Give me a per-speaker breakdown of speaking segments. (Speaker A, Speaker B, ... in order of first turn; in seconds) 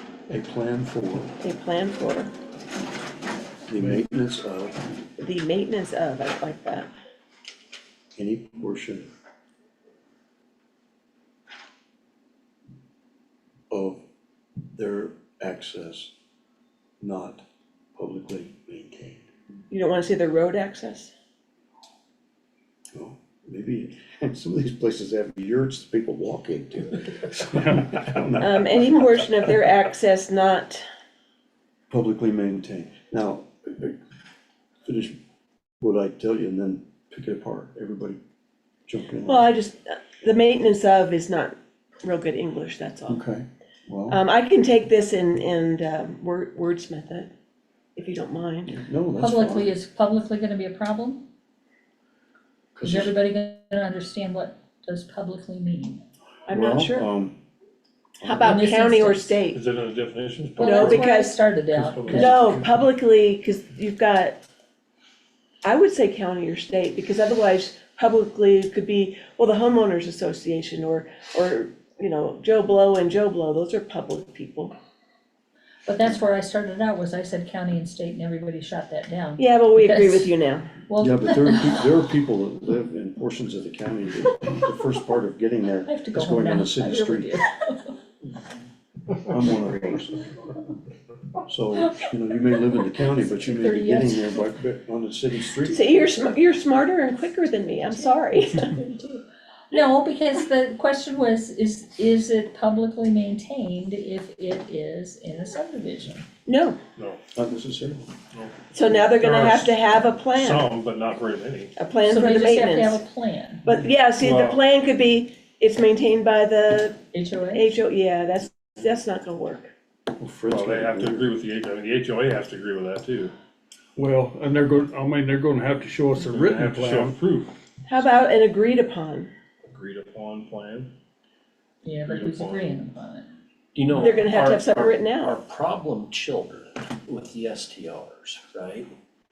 Speaker A: 0.3-1.3, 3.7-4.8, 8.2-9.1, 13.7-14.0, 14.7-16.1, 17.0-17.4, 17.9-19.3, 22.9-29.0, 31.9-34.0, 34.9-35.2, 35.8-38.2, 38.9-39.5, 43.1-44.2, 48.6-49.7, 52.8-53.1, 56.5-57.4, 58.2-58.7, 81.0-87.4, 89.3-90.3, 91.5-96.4, 107.3-108.1, 120.2-121.3
Speaker B: 1.4-2.3, 5.2-6.9, 19.7-21.1, 28.4-30.8, 39.3-43.2, 44.1-47.3, 48.0-48.8, 56.5-57.1, 58.2-59.6, 60.6-61.4, 62.1-64.4, 65.6-74.8, 79.4-80.7, 95.7-98.8, 106.5-106.8, 108.7-110.7, 111.8-113.0, 113.6-117.0, 117.5-119.7, 127.9-129.3, 133.9-135.4
Speaker C: 27.6-28.0, 124.0-127.2
Speaker D: 49.2-51.2, 52.8-56.0, 58.4-59.3, 60.6-62.5, 75.9-80.3, 80.9-81.8, 85.9-88.0, 93.2-94.4, 98.7-106.2, 112.1-113.6, 117.1-117.7, 131.8-133.3
Speaker E: 59.5-61.1, 61.7-62.5, 108.3-111.7, 114.2-114.6, 120.5-123.3, 126.2-127.5, 129.6-130.9, 132.1-132.7
Speaker F: 133.8-138.9